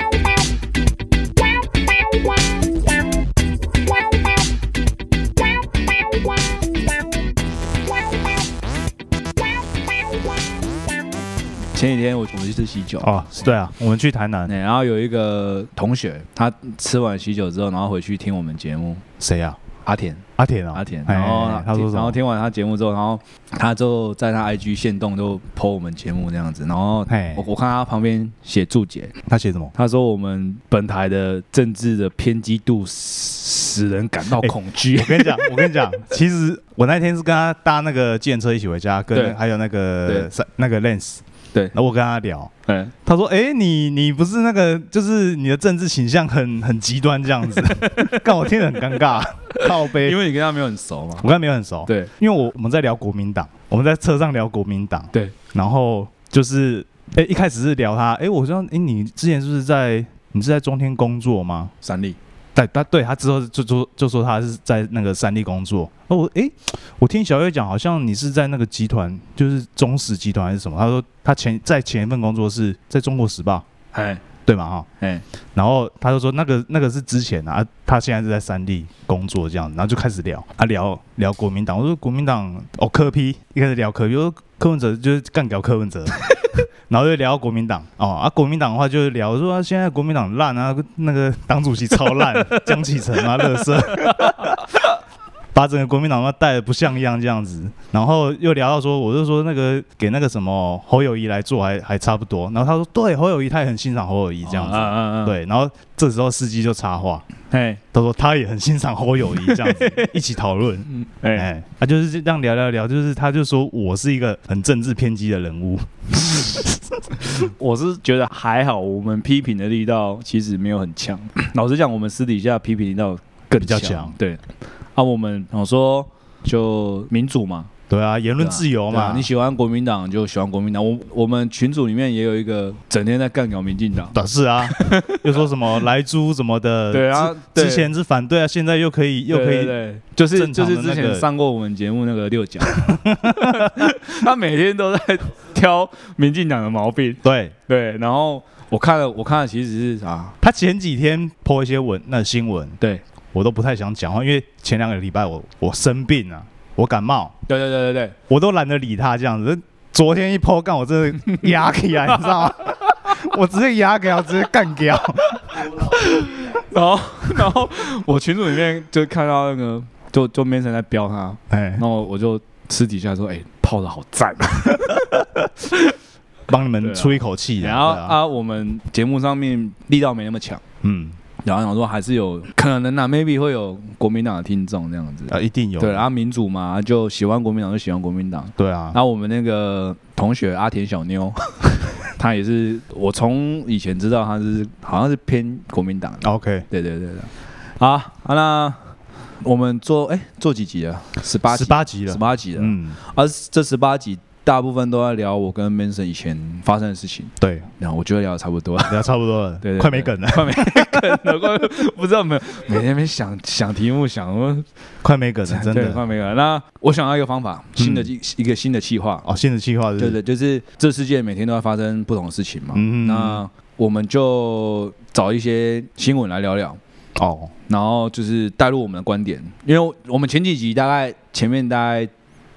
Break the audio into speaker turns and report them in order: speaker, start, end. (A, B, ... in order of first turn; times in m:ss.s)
0:11.7-0:13.1 A
0:13.0-0:14.5 B
0:14.4-0:19.0 A
0:19.2-0:19.6 B
0:19.8-0:20.2 A
0:20.4-0:22.2 B
0:20.7-0:29.1 A
0:27.1-0:27.4 B
0:29.2-0:29.7 B
0:29.7-0:35.8 A
0:34.4-0:41.2 B
0:41.7-0:42.5 B
0:42.6-0:42.9 A
0:43.0-0:50.2 B
0:47.6-0:48.4 A
0:49.6-0:51.3 A
0:51.2-1:01.7 B
0:51.8-0:52.1 A
1:01.8-1:02.2 A
1:02.5-1:13.6 B
1:13.9-1:14.2 A
1:14.4-1:14.9 B
1:15.5-1:26.2 B
1:26.9-1:34.6 B
1:33.4-1:34.4 A
1:35.5-1:47.2 B
1:44.4-1:45.4 A
1:47.5-1:47.8 A
1:47.9-1:56.8 B
1:49.4-1:50.1 A
1:50.9-1:51.5 A
1:57.2-2:07.7 A
2:03.6-2:04.1 B
2:07.9-2:09.3 B
2:08.4-2:15.2 A
2:14.1-2:19.8 B
2:16.9-2:17.9 A
2:19.3-2:30.3 A
2:20.3-2:21.2 B
2:22.7-2:23.8 B
2:27.2-2:27.5 B
2:30.4-2:32.8 B
2:33.3-2:37.3 B
2:37.5-2:38.1 A
2:38.3-2:45.3 B
2:42.2-2:42.5 A
2:45.3-2:55.0 A
2:51.5-2:51.8 B
2:54.9-2:55.5 B
2:56.5-2:58.2 B
2:56.8-3:00.6 A
3:00.8-3:01.2 B
3:01.4-3:29.0 A
3:05.3-3:06.0 B
3:08.6-3:09.0 B
3:16.2-3:16.6 B
3:21.5-3:23.0 B
3:27.4-3:27.7 B
3:28.9-3:31.2 B
3:29.6-3:34.6 A
3:35.0-3:36.0 B
3:35.5-3:39.3 A
3:37.8-3:38.1 B
3:39.2-3:40.2 B
3:40.0-3:46.8 A
3:42.7-3:43.4 B
3:47.2-3:47.5 B
3:47.7-3:52.1 A